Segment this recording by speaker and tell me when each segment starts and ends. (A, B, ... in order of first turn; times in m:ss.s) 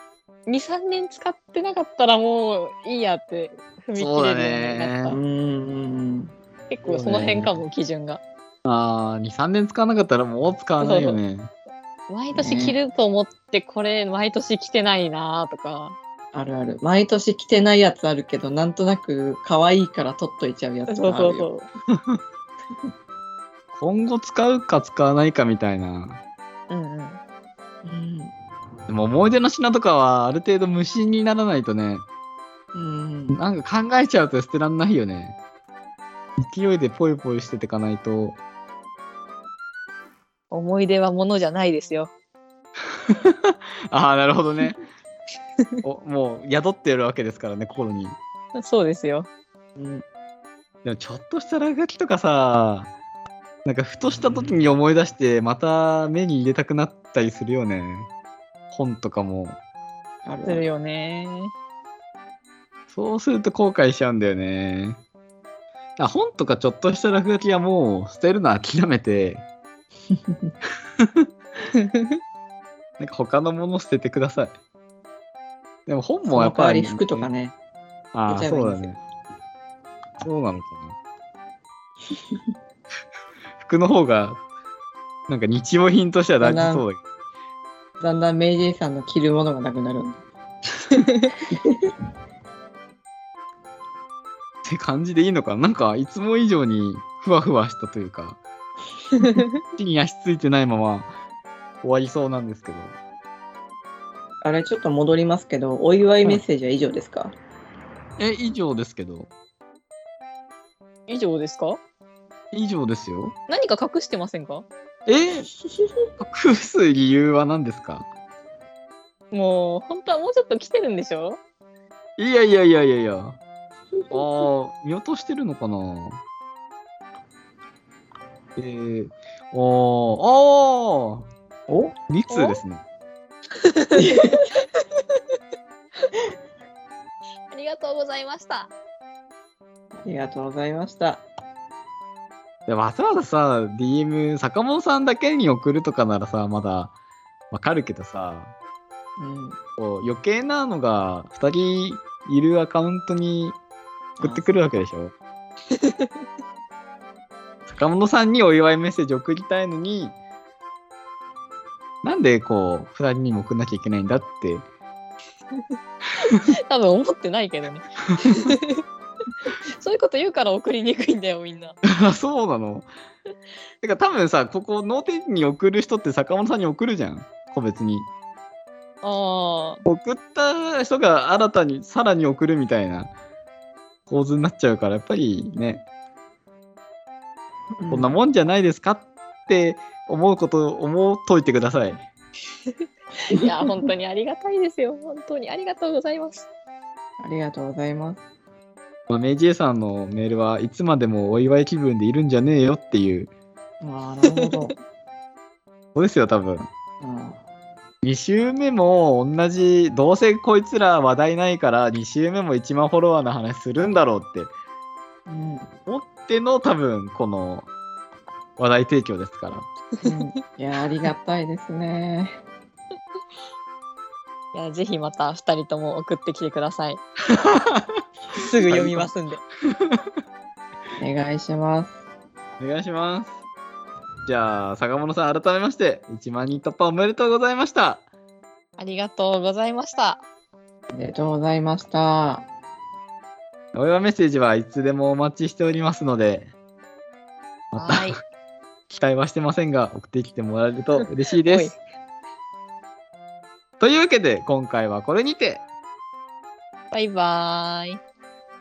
0:00.5-0:05.2 A
0:04.0-0:05.2 B
0:05.1-0:06.3 C
0:06.7-0:08.2 A
0:06.9-0:07.6 B
0:08.6-0:11.5 B
0:10.8-0:11.2 A
0:12.1-0:16.0 A
0:12.4-0:12.8 C
0:16.3-0:21.5 C
0:20.9-0:21.7 A
0:23.7-0:26.2 B
0:26.7-0:27.2 A
0:27.8-0:28.3 C
0:28.9-0:32.1 B
0:32.7-0:33.4 C
0:33.3-0:35.4 B
0:36.4-0:38.4 B
0:40.5-0:42.1 A
0:43.1-0:44.8 B
0:45.8-0:48.2 B
0:48.6-0:49.3 A
0:49.8-0:50.0 C
0:50.8-0:52.9 B
0:53.6-0:58.1 B
0:58.7-0:59.6 B
1:00.2-1:00.6 C
1:00.5-1:01.5 A
1:02.9-1:05.0 B
1:06.0-1:09.4 B
1:11.0-1:11.3 B
1:13.0-1:14.6 B
1:15.9-1:17.3 B
1:16.2-1:17.6 C
1:18.1-1:19.0 B
1:18.3-1:19.0 C
1:20.2-1:21.0 B
1:23.6-1:24.4 B
1:25.3-1:27.0 B
1:26.4-1:26.8 C
1:28.0-1:30.2 C
1:31.0-1:31.3 A
1:31.5-1:31.8 C
1:34.6-1:38.4 B
1:39.2-1:39.6 A
1:39.7-1:41.1 B
1:41.8-1:43.0 B
1:44.4-1:47.4 C
1:48.2-1:49.3 B
1:51.1-1:51.8 A
1:52.5-1:53.4 B
1:53.5-1:54.7 A
1:55.1-1:55.5 B
1:55.7-1:55.9 C
1:56.2-1:58.1 B
1:59.3-2:01.4 A
2:02.2-2:03.4 B
2:04.1-2:06.2 B
2:08.6-2:11.3 B
2:12.0-2:12.8 B
2:12.3-2:12.6 A
2:13.7-2:14.0 A
2:13.9-2:14.5 C
2:17.5-2:18.7 A
2:20.0-2:21.2 C
2:22.7-2:26.9 B
2:27.5-2:28.5 B
2:29.2-2:29.6 C
2:29.8-2:33.6 B
2:34.2-2:34.5 C
2:34.2-2:35.1 B
2:35.7-2:36.1 A
2:37.7-2:40.2 B
2:42.0-2:44.7 B
2:46.2-2:48.8 A
2:49.8-2:51.8 A
2:51.8-2:52.9 B
2:53.8-2:58.1 B
2:59.0-2:59.8 A
2:59.9-3:03.1 B
3:04.1-3:05.8 B
3:07.8-3:08.1 C
3:07.9-3:12.0 B
3:13.3-3:16.5 A
3:13.3-3:13.8 C
3:17.2-3:18.2 C
3:19.1-3:23.3 B
3:23.8-3:24.8 C
3:26.0-3:26.7 B
3:27.0-3:27.4 C
3:28.0-3:34.5 B
3:35.3-3:35.7 C
3:35.9-3:37.7 B
3:38.6-3:39.7 B
3:40.0-3:42.4 C
3:44.5-3:47.0 A
3:47.3-3:48.0 B
3:48.3-3:49.4 A
3:48.6-3:49.1 B
3:49.7-3:50.1 B
3:51.0-3:52.0 C
3:52.6-3:53.3 B
3:54.3-3:58.0 B
3:58.8-4:00.2 A
4:00.9-4:02.5 C
4:03.7-4:06.5 B
4:07.7-4:08.2 B
4:07.7-4:08.2 A
4:08.9-4:11.7 B
4:11.5-4:11.8 A
4:13.8-4:15.6 B
4:16.9-4:18.0 A